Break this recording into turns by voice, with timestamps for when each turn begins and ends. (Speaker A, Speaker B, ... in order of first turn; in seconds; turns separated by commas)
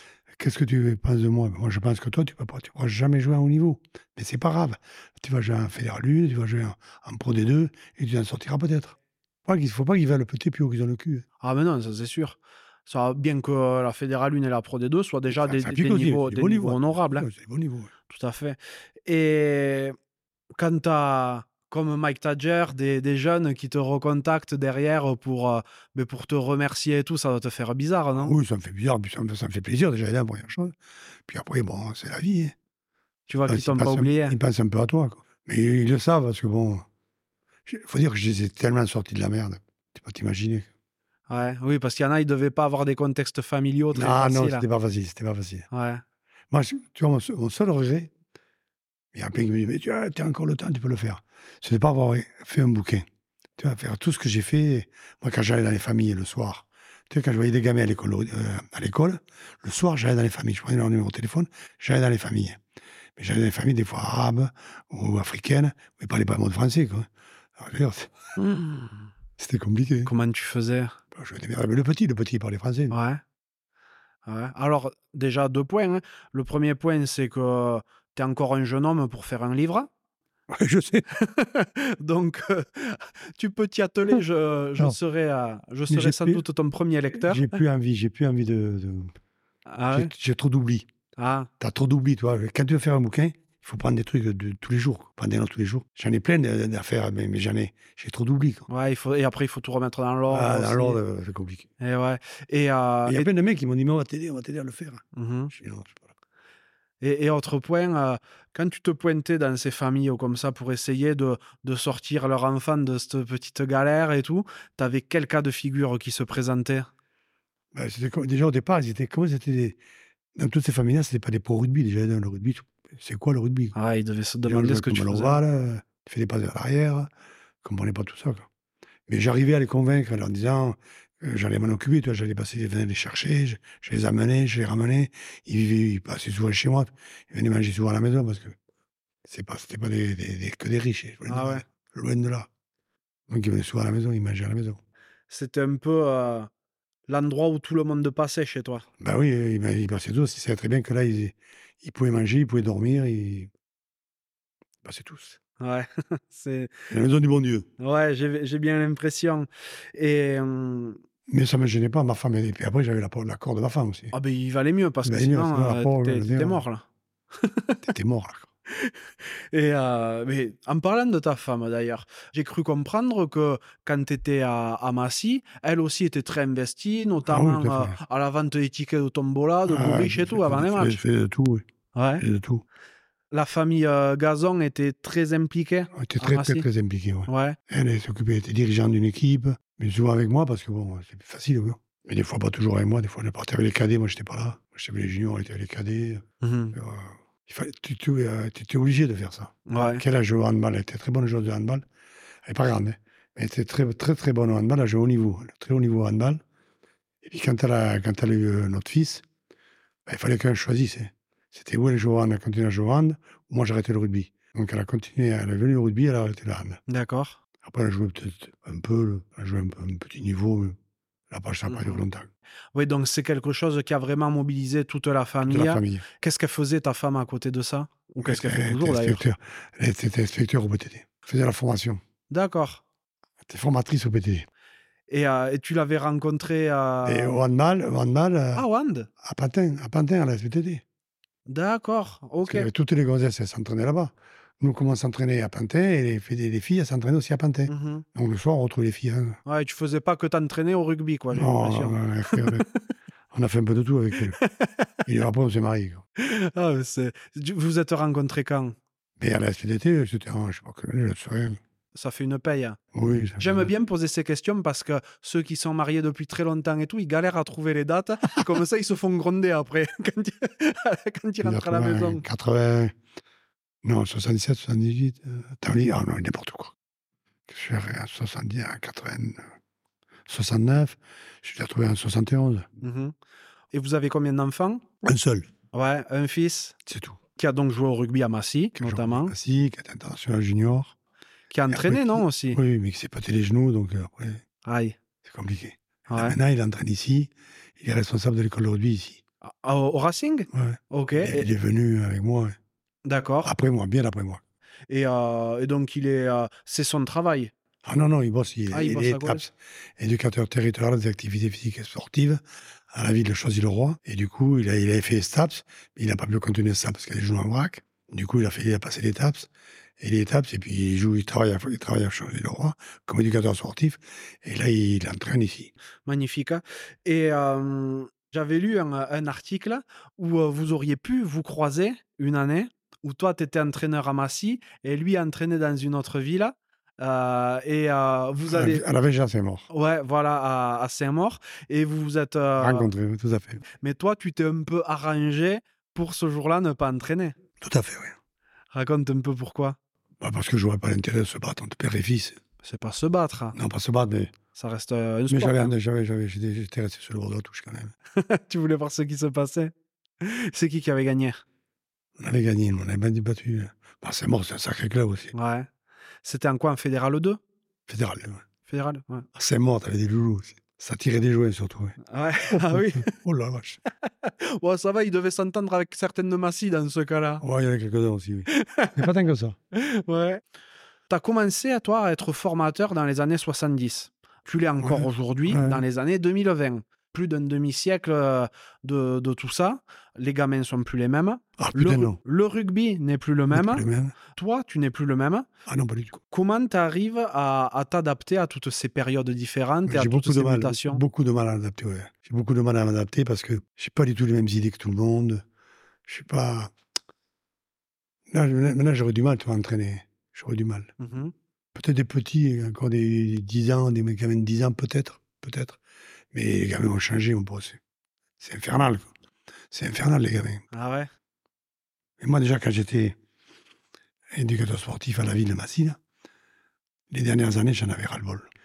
Speaker A: 0.3-11.2, Speaker B: 11.4-17.3, Speaker A: 15.3-17.9, Speaker B: 18.1-19.9, Speaker B: 20.6-28.4, Speaker A: 28.1-30.8, Speaker A: 31.3-32.5, Speaker B: 33.3-34.4, Speaker A: 33.5-36.9, Speaker A: 37.7-40.7, Speaker B: 41.3-44.6, Speaker A: 43.9-45.7, Speaker B: 45.7-46.0, Speaker A: 46.5-48.1, Speaker A: 49.1-53.0, Speaker A: 53.6-62.6, Speaker A: 63.2-68.3, Speaker B: 68.4-69.1, Speaker A: 69.4-70.1, Speaker B: 70.0-71.0, Speaker A: 71.1-73.0, Speaker B: 72.9-73.2, Speaker B: 74.3-79.9, Speaker A: 80.5-81.1, Speaker B: 81.1-87.6, Speaker A: 85.9-86.4, Speaker A: 87.1-89.1, Speaker B: 89.7-90.1, Speaker A: 89.9-90.9, Speaker B: 91.2-91.5, Speaker A: 91.6-98.7, Speaker B: 98.7-101.0, Speaker A: 100.3-101.7, Speaker B: 101.8-103.3, Speaker A: 103.1-106.1, Speaker B: 105.1-105.5, Speaker B: 107.0-116.9, Speaker A: 117.7-119.8, Speaker A: 120.4-123.8, Speaker B: 123.8-125.4, Speaker A: 124.5-127.1, Speaker A: 127.6-128.5, Speaker A: 129.1-138.6, Speaker A: 139.3-142.5, Speaker B: 141.3-141.6, Speaker A: 143.3-144.8, Speaker B: 145.3-146.5, Speaker B: 147.1-148.9, Speaker A: 149.0-153.5, Speaker A: 154.8-155.4, Speaker B: 155.6-156.7, Speaker A: 156.9-157.7, Speaker B: 157.8-161.0, Speaker A: 161.3-164.1, Speaker B: 164.1-166.8, Speaker A: 165.1-166.6, Speaker B: 167.4-167.8, Speaker A: 167.8-168.5, Speaker B: 169.5-181.0, Speaker A: 177.3-178.0, Speaker A: 179.7-181.7, Speaker B: 181.9-182.2, Speaker A: 182.2-182.6, Speaker B: 183.3-186.7, Speaker A: 185.9-201.8, Speaker B: 187.3-187.6, Speaker B: 196.4-196.8, Speaker B: 199.7-200.0, Speaker A: 202.4-206.4, Speaker A: 207.2-209.2, Speaker A: 210.1-216.8, Speaker B: 216.9-217.4, Speaker A: 217.6-220.8, Speaker A: 221.3-222.3, Speaker B: 221.7-222.0, Speaker B: 222.8-229.2, Speaker A: 225.4-226.1, Speaker A: 228.2-232.0, Speaker B: 232.3-232.8, Speaker A: 233.4-234.5, Speaker B: 235.1-237.4, Speaker A: 237.1-238.7, Speaker B: 238.6-239.1, Speaker A: 239.2-240.8, Speaker B: 241.5-242.7, Speaker A: 242.4-249.4, Speaker B: 247.7-248.1, Speaker B: 249.5-252.8, Speaker A: 251.3-252.7, Speaker A: 253.3-254.4, Speaker B: 254.3-254.9, Speaker A: 255.1-256.0, Speaker B: 256.2-258.8, Speaker A: 259.2-261.6, Speaker B: 261.9-262.8, Speaker A: 262.9-263.7, Speaker B: 263.4-272.2, Speaker A: 271.4-272.9, Speaker A: 273.8-276.8, Speaker A: 277.5-279.4, Speaker A: 280.3-282.7, Speaker B: 282.8-283.1, Speaker B: 283.7-284.8, Speaker A: 285.0-285.5, Speaker B: 285.7-286.8, Speaker A: 286.9-287.2, Speaker B: 287.4-289.3, Speaker A: 288.8-291.0, Speaker B: 291.5-292.6, Speaker A: 291.7-294.4, Speaker B: 294.6-295.0, Speaker A: 295.2-299.2, Speaker B: 296.1-296.4, Speaker B: 299.4-301.5, Speaker A: 300.5-302.6, Speaker B: 303.1-303.5, Speaker A: 303.4-304.4, Speaker B: 304.9-307.5, Speaker A: 307.9-325.7, Speaker B: 308.7-309.4, Speaker B: 326.1-338.8, Speaker A: 338.5-339.7, Speaker B: 339.7-342.9, Speaker A: 342.6-343.6, Speaker B: 343.8-347.4, Speaker A: 347.6-348.2, Speaker B: 348.7-349.8, Speaker A: 350.2-352.4, Speaker B: 352.6-353.6, Speaker A: 353.6-354.3, Speaker B: 354.5-355.7, Speaker A: 355.3-357.9, Speaker B: 358.2-361.4, Speaker A: 362.2-365.3, Speaker B: 365.3-365.7, Speaker B: 366.2-367.4, Speaker A: 367.9-368.4, Speaker B: 368.7-369.3, Speaker A: 369.4-373.8, Speaker B: 372.1-373.1, Speaker B: 374.1-377.4, Speaker A: 377.4-379.6, Speaker B: 378.5-379.1, Speaker B: 379.7-380.4, Speaker B: 381.1-393.8, Speaker A: 384.8-385.8, Speaker A: 391.6-392.2, Speaker A: 393.5-394.1, Speaker B: 394.4-395.5, Speaker A: 395.7-396.2, Speaker B: 396.3-401.0, Speaker A: 399.9-405.4, Speaker A: 406.1-406.7, Speaker A: 408.3-410.9, Speaker B: 411.0-411.3, Speaker A: 411.8-415.8, Speaker A: 416.3-417.8, Speaker A: 418.4-419.1, Speaker A: 419.7-420.6, Speaker B: 420.7-421.1, Speaker A: 422.2-423.2, Speaker A: 424.3-426.0, Speaker A: 427.1-428.5